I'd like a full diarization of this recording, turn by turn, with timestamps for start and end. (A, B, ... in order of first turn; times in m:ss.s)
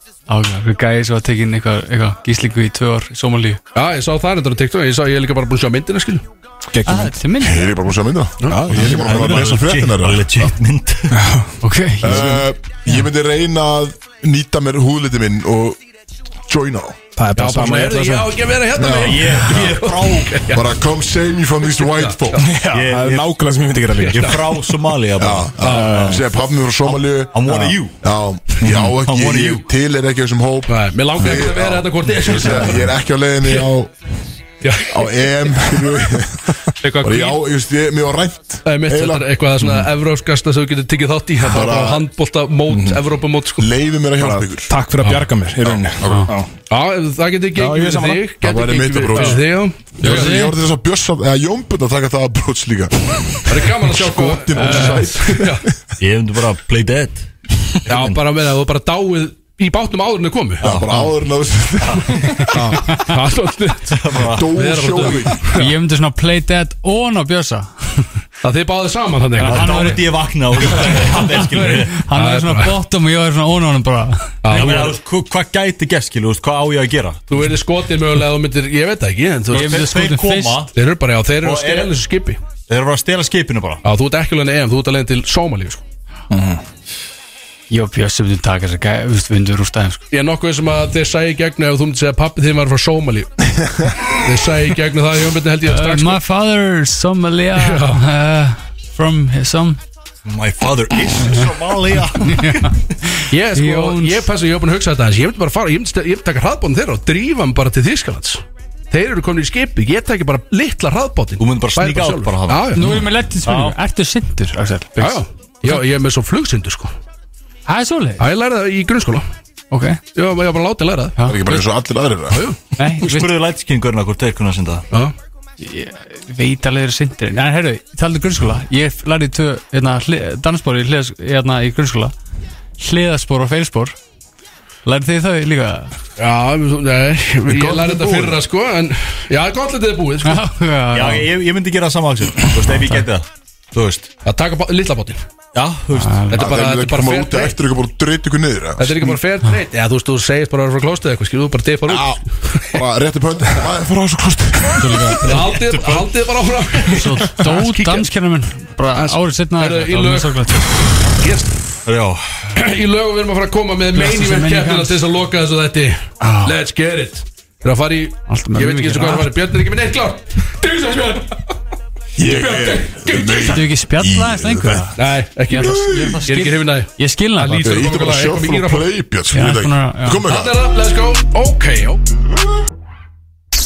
0:00.3-0:03.6 A
0:03.7-0:06.2 B
0:06.7-0:07.2 C
0:06.9-0:07.8 A
0:07.4-0:10.5 D
0:08.5-0:09.6 C
0:08.8-0:11.2 E
0:11.1-0:12.4 C
0:11.6-0:12.2 A
0:12.0-0:15.8 D
0:16.5-0:17.0 D
0:17.2-0:18.4 C
0:17.4-0:20.8 B
0:18.8-0:19.6 D
0:19.0-0:20.5 E
0:20.5-0:22.5 D
0:21.6-0:22.4 B
0:22.4-0:24.4 C
0:22.7-0:23.3 E
0:24.0-0:24.6 B
0:24.1-0:26.2 E
0:25.2-0:33.9 D
0:25.6-0:26.0 B
0:25.6-0:26.2 C
0:26.9-0:28.0 E
0:27.5-0:27.7 C
0:28.6-0:29.7 E
0:30.7-0:32.9 B
0:34.6-0:35.3 B
0:34.9-0:39.8 D
0:36.8-0:37.4 B
0:38.6-0:43.7 B
0:41.4-0:42.1 D
0:42.7-0:43.0 C
0:43.6-0:44.7 D
0:44.2-0:46.5 C
0:46.7-0:50.5 B
0:47.6-0:48.2 C
0:48.4-0:55.8 D
0:50.0-0:50.6 A
0:53.5-0:55.6 B
0:56.0-0:57.3 E
0:57.8-0:58.2 E
0:57.9-1:00.6 B
1:00.6-1:01.1 E
1:00.6-1:02.8 D
1:01.8-1:02.4 E
1:02.4-1:03.2 A
1:02.5-1:05.7 B
1:03.9-1:04.5 E
1:04.3-1:05.4 D
1:05.5-1:08.1 A
1:08.4-1:10.0 B
1:09.4-1:10.1 A
1:09.4-1:12.0 E
1:10.6-1:14.7 A
1:12.1-1:12.8 B
1:14.4-1:15.0 B
1:14.5-1:17.2 E
1:17.3-1:19.9 B
1:19.5-1:20.7 E
1:19.5-1:20.6 A
1:20.8-1:22.4 B
1:21.4-1:21.9 E
1:22.7-1:23.8 E
1:23.8-1:25.8 B
1:26.3-1:26.6 C
1:27.7-1:30.0 A
1:30.1-1:36.2 B
1:35.7-1:39.8 A
1:37.6-1:38.0 B
1:40.3-1:42.8 E
1:41.2-1:41.5 A
1:42.2-1:44.3 A
1:43.3-1:52.9 B
1:51.4-1:53.8 E
1:52.7-1:55.8 A
1:55.0-1:56.9 B
1:57.7-1:58.2 A
1:58.2-1:59.3 B
1:59.7-2:00.0 A
2:00.2-2:01.2 B
2:01.2-2:02.5 D
2:02.3-2:02.6 B
2:02.8-2:03.3 A
2:03.0-2:04.8 E
2:05.6-2:12.1 A
2:12.8-2:14.0 A
2:14.8-2:15.9 A
2:16.2-2:20.4 B
2:20.2-2:21.3 A
2:20.9-2:24.1 E
2:24.2-2:25.2 B
2:25.5-2:26.3 E
2:26.0-2:26.4 A
2:26.3-2:27.6 B
2:26.3-2:29.2 D
2:28.8-2:32.8 B
2:31.9-2:35.4 D
2:34.8-2:35.4 A
2:35.2-2:38.1 B
2:35.5-2:36.1 E
2:36.9-2:40.8 A
2:39.0-2:41.6 B
2:41.9-2:42.2 E
2:42.6-2:51.5 B
2:43.9-2:45.0 A
2:46.2-2:46.6 A
2:48.3-2:49.3 A
2:52.2-2:54.9 D
2:52.2-2:53.6 B
2:53.3-2:55.0 A
2:55.0-2:58.9 B
2:55.5-2:57.7 A
2:55.6-2:56.2 D
2:57.6-3:00.6 D
2:59.3-3:00.2 A
3:00.3-3:02.0 B